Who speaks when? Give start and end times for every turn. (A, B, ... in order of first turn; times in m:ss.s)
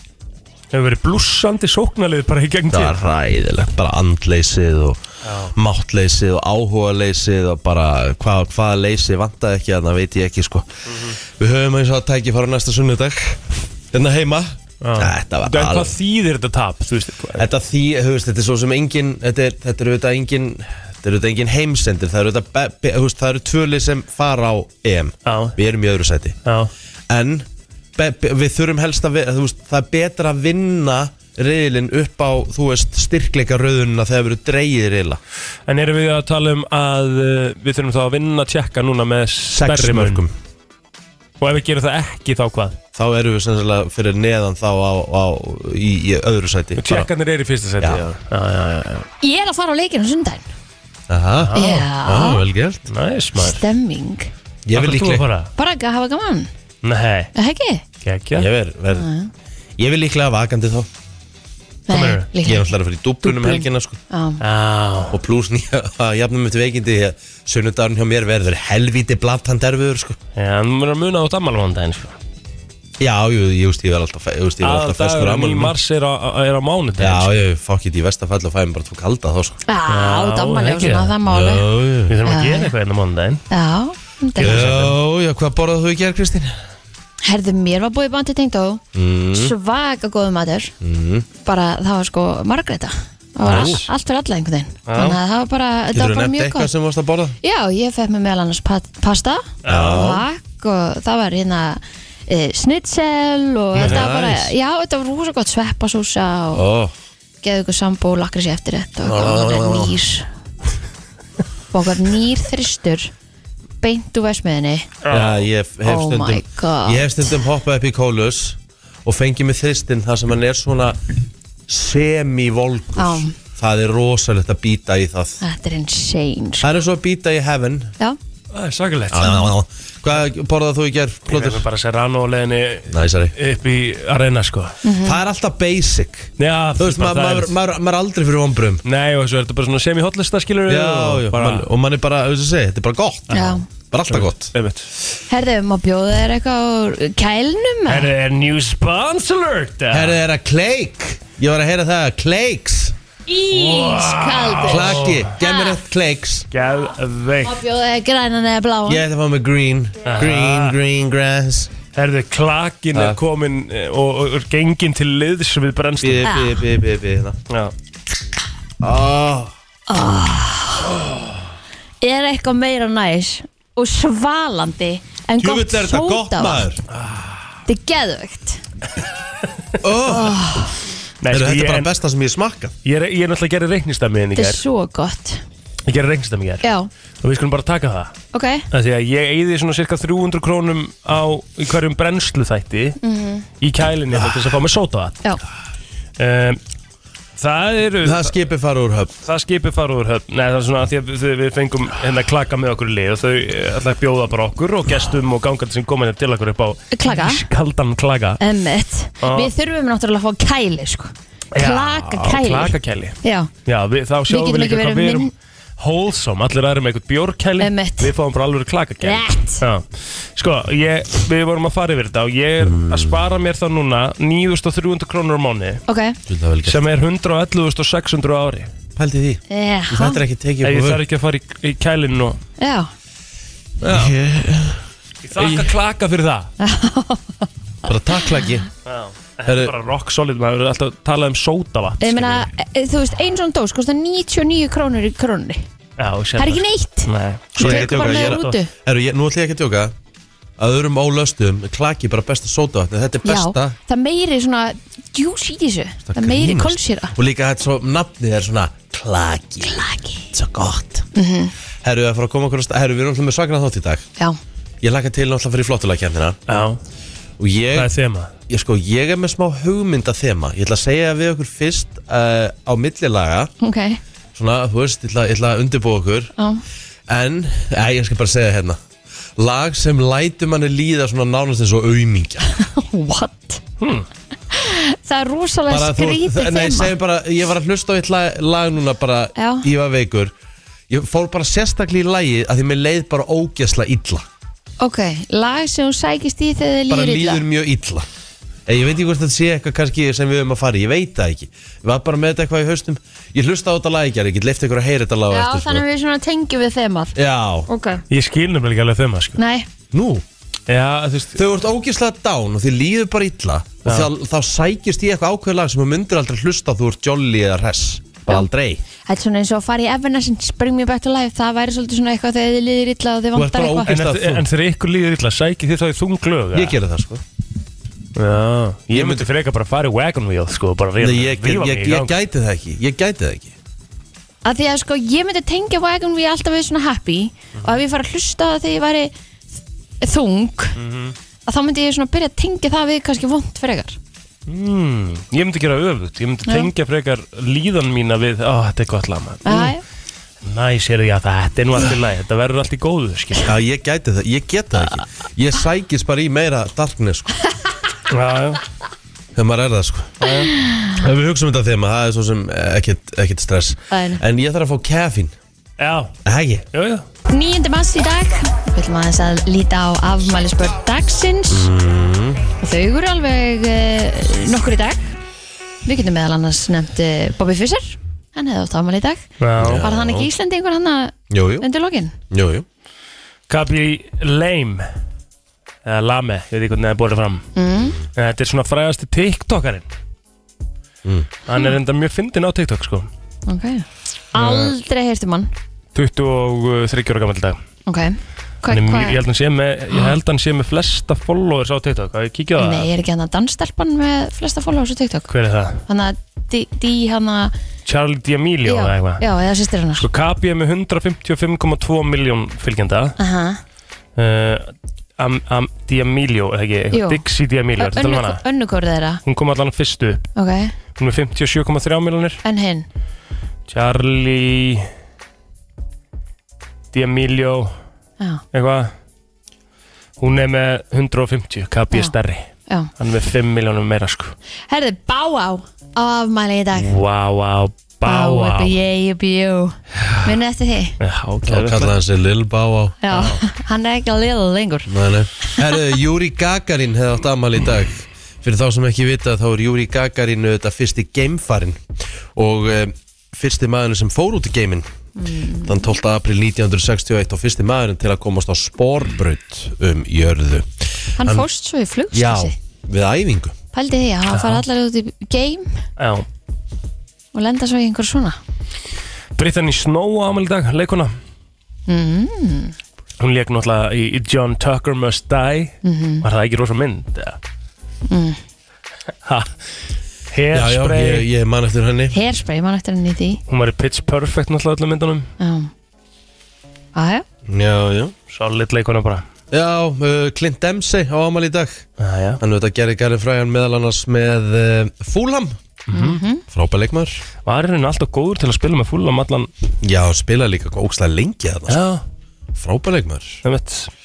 0:00.7-0:03.0 A
0:02.7-0:05.0 B
0:05.2-0:05.5 A
0:05.5-0:10.7 B
0:10.9-0:11.2 A
0:11.2-0:15.9 B
0:14.8-0:17.5 A
0:17.3-0:26.4 B
0:25.2-0:25.6 A
0:26.4-0:26.7 A
0:27.1-0:35.2 B
0:35.7-0:40.2 A
0:39.5-0:40.3 B
0:41.4-0:42.8 A
0:42.9-0:47.1 B
0:46.8-0:49.1 A
0:49.2-0:50.5 C
0:51.1-0:52.9 B
0:51.4-0:51.9 A
0:51.5-0:52.4 C
0:52.9-0:53.6 A
0:53.4-0:54.3 C
0:54.6-0:55.3 B
0:54.7-0:55.5 A
0:55.6-0:56.5 C
0:56.8-0:57.3 A
0:57.3-0:57.8 C
0:58.0-0:58.5 A
0:58.3-0:59.1 B
0:58.9-0:59.3 C
0:59.8-1:00.9 B
1:01.9-1:02.7 C
1:01.9-1:02.3 A
1:02.4-1:04.0 B
1:03.2-1:04.4 C
1:04.4-1:05.2 A
1:05.1-1:10.2 B
1:10.4-1:12.2 A
1:13.0-1:15.7 B
1:14.6-1:17.3 A
1:17.0-1:19.6 B
1:19.7-1:21.7 C
1:19.9-1:21.2 A
1:21.2-1:22.1 B
1:22.1-1:23.4 A
1:22.2-1:22.7 C
1:23.5-1:24.6 C
1:24.4-1:24.9 A
1:24.4-1:26.5 B
1:27.2-1:28.8 C
1:28.9-1:29.5 B
1:29.3-1:30.7 C
1:30.8-1:31.2 B
1:31.4-1:36.7 C
1:33.4-1:33.8 B
1:33.4-1:33.8 A
1:34.9-1:35.2 A
1:35.9-1:37.4 B
1:37.4-1:46.6 C
1:39.6-1:40.1 A
1:39.6-1:40.2 B
1:43.7-1:44.5 B
1:43.8-1:44.0 A
1:46.5-1:46.9 B
1:47.4-1:50.3 C
1:49.0-1:49.9 B
1:51.7-1:53.1 C
1:53.8-1:54.9 C
1:55.0-1:55.4 A
1:55.1-2:01.0 B
1:55.8-1:57.4 C
2:01.7-2:05.4 B
2:03.0-2:03.3 C
2:05.4-2:06.7 C
2:06.6-2:08.0 B
2:08.5-2:09.5 A
2:09.1-2:11.6 B
2:11.3-2:14.8 A
2:12.9-2:13.3 B
2:14.8-2:15.2 C
2:15.0-2:18.8 B
2:16.4-2:17.5 A
2:18.8-2:21.7 A
2:20.7-2:23.4 B
2:23.3-2:24.9 A
2:23.3-2:23.6 C
2:23.9-2:24.5 B
2:25.3-2:28.1 C
2:27.8-2:30.2 A
2:29.9-2:32.9 B
2:33.3-2:35.8 C
2:33.5-2:35.3 A
2:34.6-2:36.5 B
2:36.5-2:37.6 A
2:37.4-2:39.0 C
2:38.9-2:41.7 B
2:40.0-2:40.8 A
2:41.9-2:46.3 A
2:42.9-2:43.2 B
2:46.0-2:47.4 B
2:46.2-2:46.6 C
2:48.8-2:49.5 B
2:49.9-2:50.9 C
2:52.0-2:56.7 C
2:55.4-2:56.8 B
2:56.9-2:57.4 A
2:57.7-2:58.6 C
2:59.8-3:00.5 B
3:00.0-3:00.8 C
3:01.2-3:01.9 A
3:01.3-3:02.7 B
3:02.8-3:04.6 A
3:04.4-3:05.4 C
3:05.9-3:06.6 A
3:06.6-3:06.9 C
3:07.2-3:08.1 A
3:08.3-3:08.6 C
3:08.7-3:13.0 A
3:13.0-3:13.4 C
3:13.6-3:15.2 A
3:16.2-3:16.6 A
3:17.4-3:18.4 A
3:18.0-3:19.1 B
3:19.2-3:28.4 A
3:26.9-3:27.4 C
3:28.4-3:33.5 C
3:29.2-3:29.5 A
3:31.5-3:45.8 A
3:34.3-3:35.3 C
3:37.6-3:38.1 C
3:39.0-3:39.6 C
3:42.6-3:43.2 B
3:45.9-3:46.2 C
3:46.3-3:46.8 B
3:46.6-3:48.7 A
3:49.0-3:51.0 B
3:49.5-3:50.2 C
3:50.6-3:52.4 A
3:52.6-3:52.9 C
3:53.8-3:54.8 B
3:53.8-3:54.1 A
3:55.2-3:56.5 A
3:55.4-3:55.7 B
3:56.6-3:58.2 C
3:57.8-3:58.7 B
3:58.8-4:02.5 A
3:59.4-3:59.7 B
4:02.0-4:05.6 C
4:06.0-4:08.6 A
4:06.4-4:08.7 C
4:07.6-4:09.9 B
4:10.6-4:13.8 B
4:13.2-4:17.1 C
4:16.1-4:21.1 B
4:21.1-4:21.5 C
4:21.8-4:24.0 B
4:24.8-4:26.4 B
4:26.5-4:26.8 A
4:27.4-4:27.9 B
4:27.7-4:28.3 A
4:28.5-4:33.5 B
4:33.6-4:34.0 C
4:34.3-4:36.3 B
4:37.1-4:38.8 B
4:39.4-4:42.4 B
4:42.6-4:43.6 C
4:43.8-4:44.1 A
4:44.5-4:46.9 C
4:45.7-4:50.3 B
4:49.4-4:49.6 C
4:50.9-4:54.2 B
4:54.8-4:57.4 C
4:56.9-4:58.0 B
4:58.7-5:05.8 B
5:05.3-5:07.2 C
5:07.1-5:07.7 B
5:07.7-5:08.0 C
5:08.1-5:09.4 A
5:09.4-5:09.7 C
5:09.9-5:10.2 B
5:10.7-5:11.4 A
5:11.4-5:18.8 B
5:19.0-5:23.9 C
5:23.3-5:24.4 B
5:23.9-5:26.8 A
5:26.5-5:27.2 B
5:28.2-5:32.1 A
5:28.9-5:29.3 B
5:31.0-5:33.5 B
5:34.4-5:39.1 C
5:40.0-5:40.8 C
5:40.8-5:41.1 A
5:41.5-5:44.0 C
5:44.5-5:49.7 A
5:49.4-5:49.8 C
5:50.4-5:53.5 A
5:53.4-5:57.3 B
5:58.1-5:58.6 A
5:59.3-6:00.3 B
6:00.2-6:00.5 A
6:00.5-6:01.0 C
6:01.0-6:05.3 B
6:03.9-6:04.2 C
6:05.8-6:06.1 A
6:06.2-6:06.7 B
6:06.7-6:07.0 A
6:07.3-6:11.7 C
6:11.5-6:12.5 B
6:12.6-6:15.1 C
6:15.8-6:22.1 C
6:19.4-6:19.8 A
6:19.6-6:20.3 B
6:21.3-6:21.7 B
6:22.3-6:22.6 B
6:23.5-6:24.9 A
6:25.8-6:27.5 A
6:27.6-6:28.0 C
6:28.2-6:29.9 A
6:31.4-6:33.1 A
6:33.5-6:35.5 C
6:34.3-6:34.7 A
6:35.9-6:37.6 A
6:37.9-6:39.2 C
6:38.7-6:42.9 A
6:42.6-6:45.3 C
6:45.3-6:45.8 A
6:45.8-6:47.5 C
6:47.8-6:49.2 A
6:48.6-6:50.0 C
6:50.0-6:53.2 A
6:53.2-6:53.6 C
6:54.2-6:58.4 A
6:56.9-6:57.2 C
6:57.8-6:59.2 C
6:59.2-7:00.2 A
7:00.4-7:00.7 C
7:01.0-7:02.4 A
7:02.4-7:02.9 C
7:03.7-7:04.9 A
7:06.9-7:07.7 A
7:08.5-7:08.9 A
7:10.2-7:14.3 A
7:14.7-7:16.9 C
7:16.7-7:18.8 A
7:18.0-7:21.0 C
7:21.0-7:21.9 A
7:21.4-7:23.0 B
7:23.0-7:24.9 C
7:23.1-7:23.4 A
7:24.9-7:31.8 B
7:32.3-7:34.9 B
7:35.2-7:35.8 C
7:35.6-7:41.4 B
7:41.2-7:42.5 C
7:42.1-7:43.6 B
7:43.7-7:45.8 C
7:44.3-7:44.6 A
7:46.0-7:46.3 A
7:47.3-7:48.4 C
7:49.4-7:51.1 A
7:51.9-7:52.7 C
7:53.2-7:57.4 A
7:55.8-7:56.2 C
7:58.1-7:58.4 C
7:59.2-7:59.5 A
8:00.3-8:01.3 A
8:00.5-8:02.2 B
8:02.1-8:03.4 C
8:03.5-8:05.3 A
8:05.4-8:05.7 C
8:06.9-8:07.2 C
8:07.5-8:08.1 B
8:08.3-8:09.2 A
8:09.5-8:11.8 B
8:12.0-8:12.4 A
8:12.4-8:15.6 B
8:15.9-8:16.2 A
8:15.9-8:16.4 C
8:16.5-8:17.2 B
8:17.4-8:19.5 A
8:19.8-8:21.8 B
8:21.7-8:22.0 A
8:22.5-8:23.4 B
8:23.4-8:23.9 A